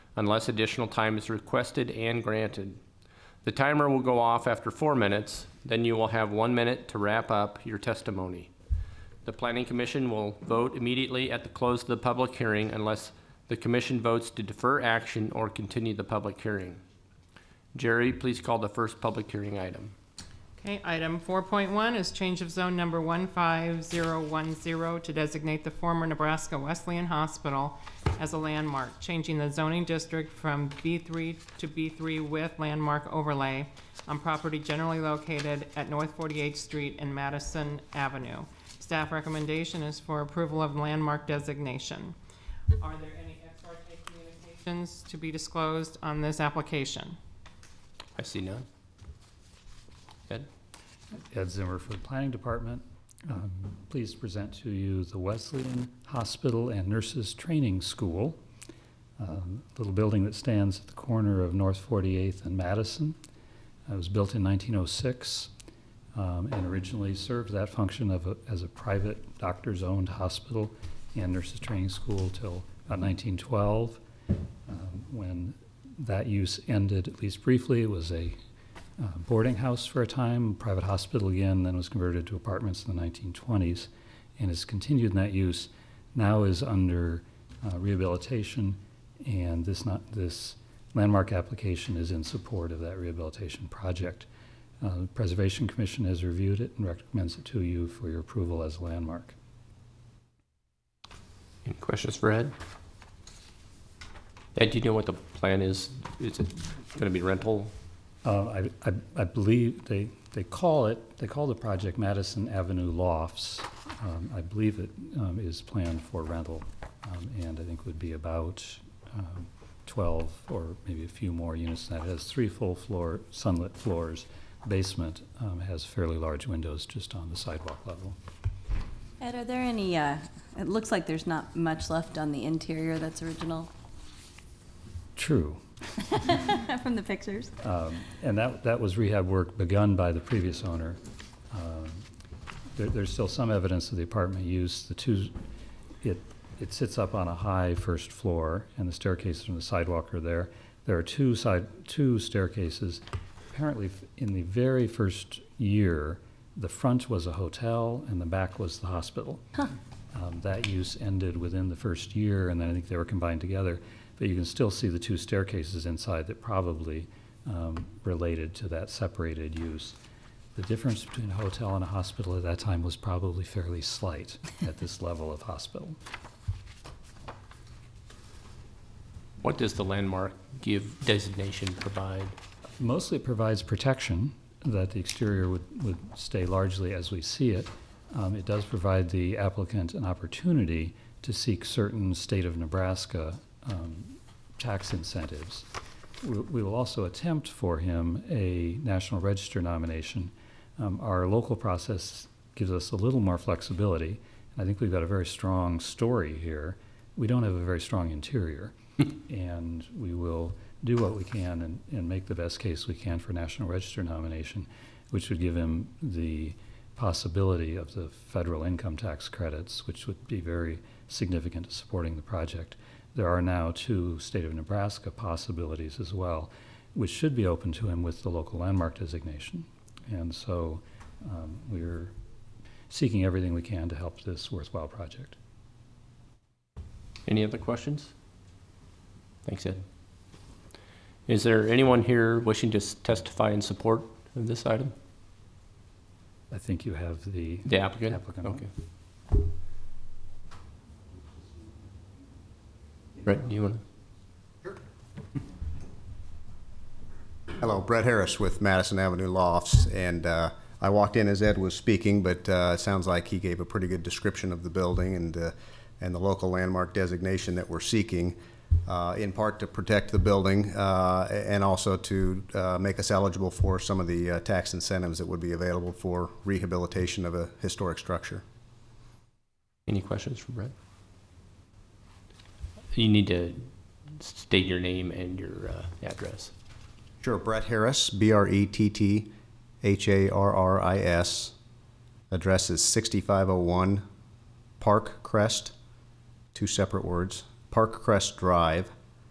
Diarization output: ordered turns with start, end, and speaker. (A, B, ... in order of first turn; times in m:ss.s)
0:00.2-0:02.8 A
0:03.4-0:08.5 A
0:09.2-0:16.8 A
0:17.7-0:19.9 A
0:20.6-0:42.2 B
0:42.8-0:47.2 B
0:48.2-0:48.6 A
0:51.3-0:58.4 C
0:59.2-1:03.2 C
1:03.9-1:05.5 C
1:06.1-1:14.0 C
1:14.7-1:18.4 C
1:19.0-1:34.3 C
1:34.8-1:39.4 C
1:41.6-1:42.5 A
1:44.5-1:47.7 A
1:48.2-2:08.2 C
2:09.2-2:13.7 D
2:15.1-2:15.6 C
2:16.4-2:17.5 D
2:17.6-2:22.0 C
2:22.7-2:25.3 C
2:26.0-2:39.4 C
2:40.1-2:50.0 C
2:50.5-2:56.0 C
2:59.4-3:02.4 A
3:02.8-3:15.7 C
3:16.2-3:52.1 C
3:52.9-3:55.4 C
3:57.2-3:58.1 A
3:59.4-3:59.8 A
4:01.3-4:04.9 A
4:06.5-4:08.7 C
4:07.7-4:08.7 A
4:13.2-4:13.8 A
4:17.6-4:38.4 E
4:39.9-4:40.7 A
4:42.9-4:46.5 A
4:47.2-4:49.3 E
4:49.8-4:51.6 E
4:52.3-4:54.0 E
4:54.8-4:55.7 E
4:56.5-4:58.9 E